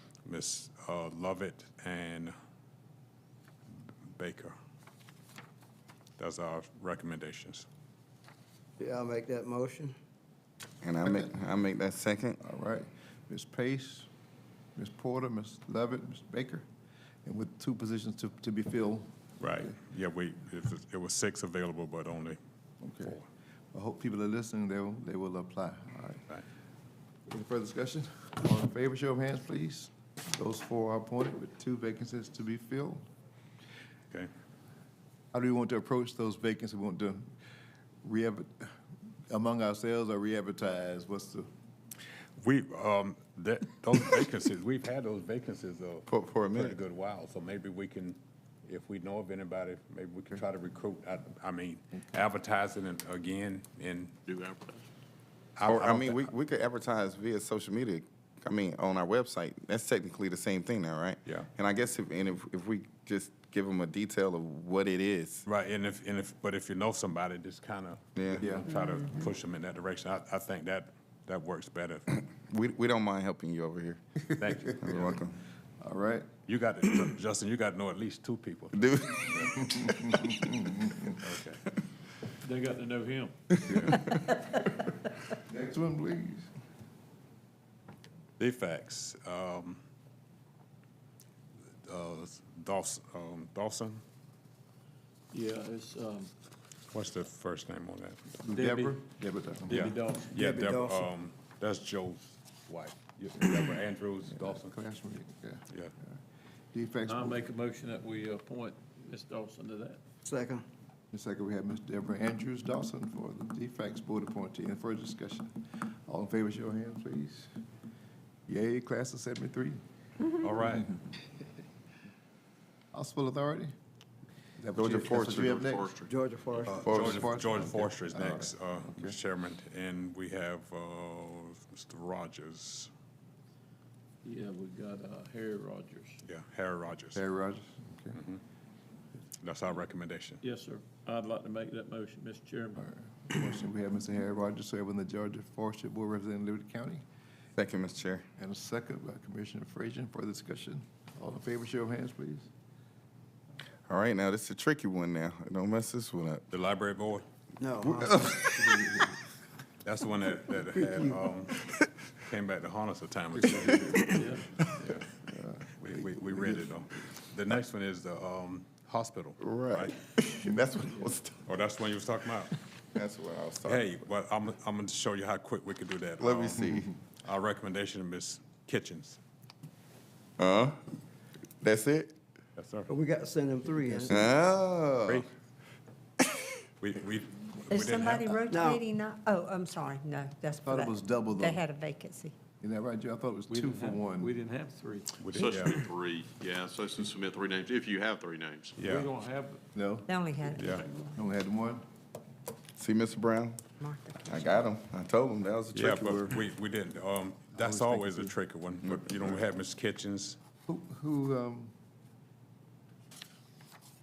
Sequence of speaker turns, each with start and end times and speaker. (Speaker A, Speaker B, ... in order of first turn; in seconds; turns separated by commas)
Speaker A: 0.2-2.3, Speaker A: 4.1-4.5, Speaker A: 6.2-7.7, Speaker B: 8.8-9.9, Speaker C: 10.8-12.4, Speaker D: 11.0-11.3, Speaker D: 12.4-14.1, Speaker D: 14.8-16.6, Speaker D: 17.2-19.7, Speaker A: 19.4-22.4, Speaker D: 22.8-23.2, Speaker A: 23.0-23.2, Speaker D: 23.7-26.2, Speaker D: 27.3-33.0, Speaker D: 35.3-37.3, Speaker D: 38.0-38.7, Speaker D: 39.3-41.5, Speaker A: 42.4-54.1, Speaker C: 46.1-46.8, Speaker E: 54.3-54.9, Speaker A: 55.6-56.3, Speaker C: 55.6-65.4, Speaker A: 65.5-72.1, Speaker C: 68.2-68.5, Speaker D: 68.4-68.7, Speaker C: 72.3-74.0, Speaker A: 74.4-75.2, Speaker C: 74.8-75.3, Speaker D: 75.8-76.3, Speaker A: 76.4-79.6, Speaker C: 78.7-80.4, Speaker D: 79.7-81.1, Speaker A: 81.2-81.6, Speaker F: 82.4-83.3, Speaker A: 83.6-84.2, Speaker C: 83.6-84.4, Speaker D: 85.3-86.5, Speaker A: 88.4-89.8, Speaker A: 91.8-94.0, Speaker F: 95.3-96.3, Speaker A: 96.9-98.2, Speaker D: 98.4-99.9, Speaker F: 98.5-99.0, Speaker F: 99.7-100.4, Speaker A: 99.7-104.7, Speaker B: 100.3-101.1, Speaker D: 104.3-106.2, Speaker D: 106.7-107.5, Speaker F: 107.1-110.0, Speaker B: 110.2-110.6, Speaker D: 111.1-115.5, Speaker D: 116.1-117.5, Speaker D: 118.5-119.8, Speaker A: 120.4-120.9, Speaker D: 122.9-123.7, Speaker D: 124.6-125.9, Speaker C: 124.7-125.5, Speaker E: 125.2-126.8, Speaker B: 126.0-126.9, Speaker A: 126.7-132.9, Speaker D: 126.8-129.2, Speaker C: 126.8-127.2, Speaker F: 134.2-136.2, Speaker A: 136.2-137.2, Speaker D: 137.1-138.2, Speaker A: 138.1-138.4, Speaker A: 139.4-140.4, Speaker F: 140.4-142.8, Speaker D: 142.7-147.0, Speaker C: 147.6-148.2, Speaker D: 148.3-152.5, Speaker C: 153.9-156.4, Speaker A: 156.5-157.2, Speaker B: 157.6-158.5, Speaker D: 158.0-159.2, Speaker A: 159.8-161.6, Speaker A: 162.2-165.1, Speaker D: 163.3-164.3, Speaker D: 165.2-166.7, Speaker A: 165.8-170.0, Speaker C: 169.4-171.4, Speaker A: 171.4-172.5, Speaker C: 172.9-174.1, Speaker A: 173.7-179.2, Speaker C: 176.2-176.9, Speaker C: 180.4-180.8, Speaker C: 181.6-182.1, Speaker A: 182.6-182.9, Speaker B: 182.9-184.4, Speaker C: 184.1-185.2, Speaker A: 186.8-188.4, Speaker G: 187.7-192.4, Speaker B: 188.5-188.8, Speaker D: 190.6-191.6, Speaker D: 192.6-194.3, Speaker F: 193.5-195.2, Speaker A: 195.2-195.8, Speaker E: 195.2-198.9, Speaker A: 198.8-199.1, Speaker F: 198.9-199.6, Speaker D: 199.7-200.1, Speaker G: 200.1-200.8, Speaker A: 200.5-200.8, Speaker D: 201.1-201.8, Speaker C: 202.8-203.7, Speaker G: 203.8-204.6, Speaker C: 204.2-206.4, Speaker A: 205.7-210.4, Speaker D: 207.5-208.3, Speaker C: 208.8-209.5, Speaker D: 210.7-211.7